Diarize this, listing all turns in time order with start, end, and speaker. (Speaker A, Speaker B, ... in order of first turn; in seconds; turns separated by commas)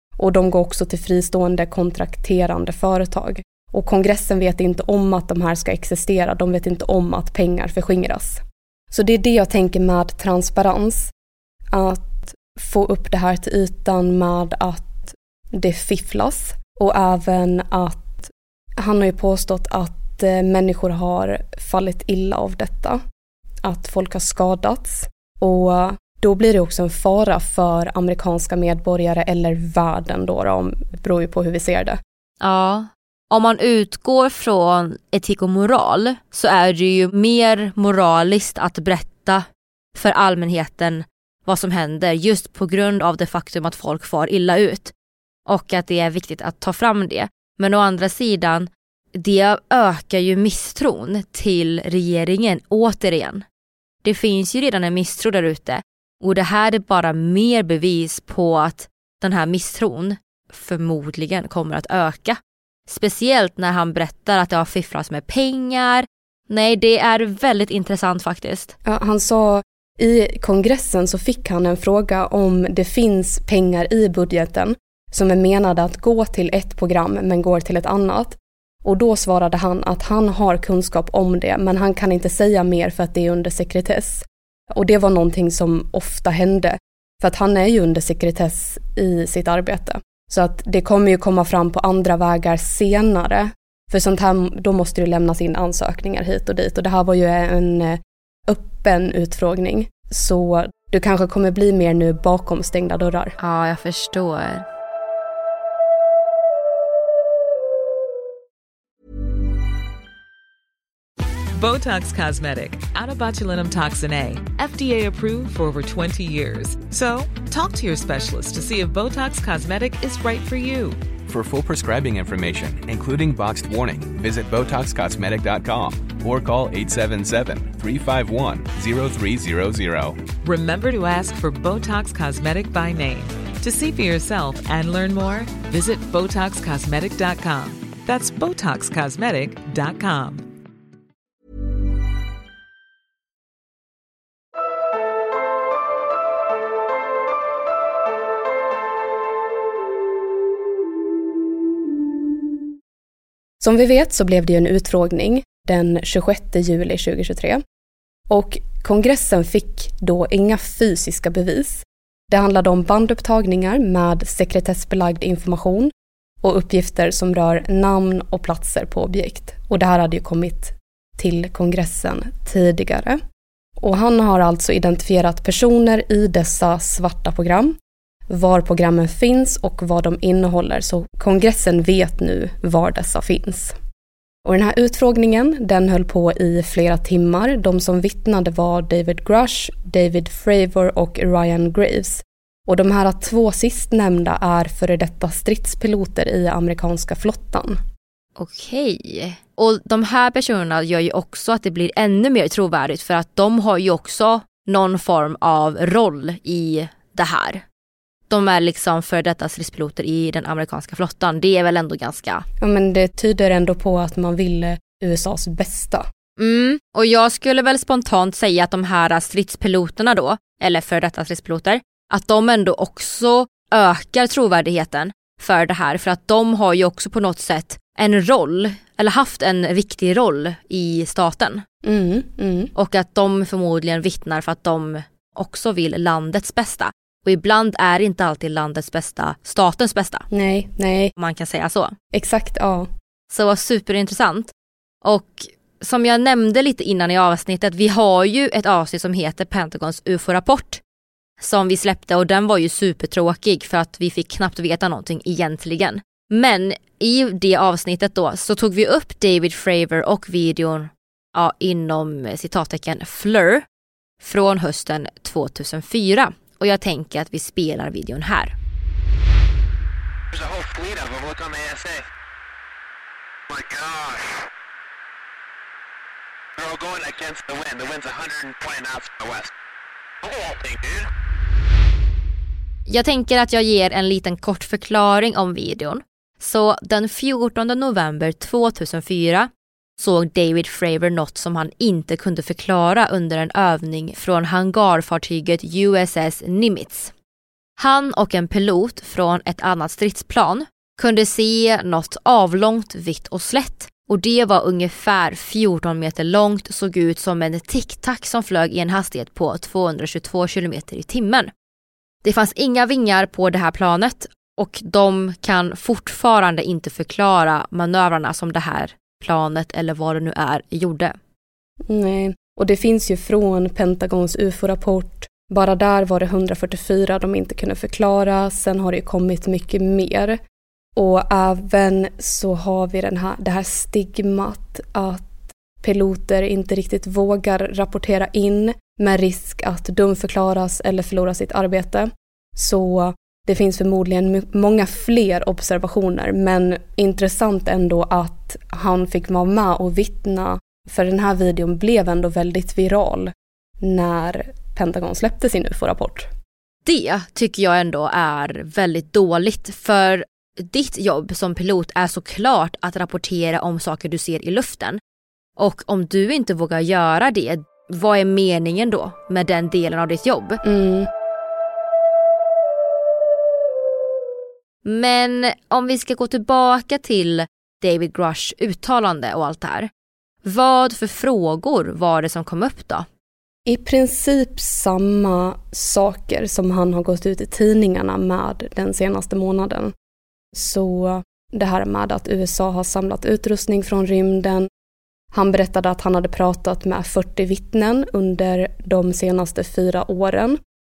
Speaker A: 0.2-11.1, Speaker A: 11.7-23.0, Speaker A: 23.6-32.0, Speaker B: 32.4-44.9, Speaker B: 45.5-53.4, Speaker B: 54.0-68.7, Speaker A: 68.8-103.3, Speaker B: 103.4-104.7, Speaker C: 111.5-121.0, Speaker D: 121.3-130.2, Speaker C: 130.4-140.5, Speaker A: 153.6-157.6, Speaker A: 158.3-165.9, Speaker A: 166.4-173.2, Speaker A: 173.8-177.8, Speaker A: 178.3-183.7, Speaker A: 184.4-197.8, Speaker B: 198.4-207.6, Speaker B: 208.3-212.4, Speaker A: 212.6-216.1, Speaker B: 216.4-231.6, Speaker A: 231.8-232.7, Speaker B: 232.7-240.2, Speaker A: 240.3-241.1, Speaker B: 241.2-241.9, Speaker A: 242.1-242.9, Speaker B: 243.3-244.5, Speaker B: 245.0-250.8, Speaker B: 251.4-263.6, Speaker B: 264.2-268.5, Speaker E: 270.3-272.0, Speaker E: 273.5-274.4, Speaker E: 276.6-279.5, Speaker E: 280.2-281.1, Speaker B: 282.9-297.1, Speaker B: 297.8-311.5, Speaker B: 312.2-321.1, Speaker A: 321.9-330.4, Speaker A: 330.9-356.3, Speaker B: 356.8-365.0, Speaker B: 365.6-370.6, Speaker A: 370.6-371.1, Speaker B: 374.8-379.9, Speaker B: 380.4-383.1, Speaker A: 383.6-389.9, Speaker A: 390.5-394.7, Speaker A: 395.3-400.6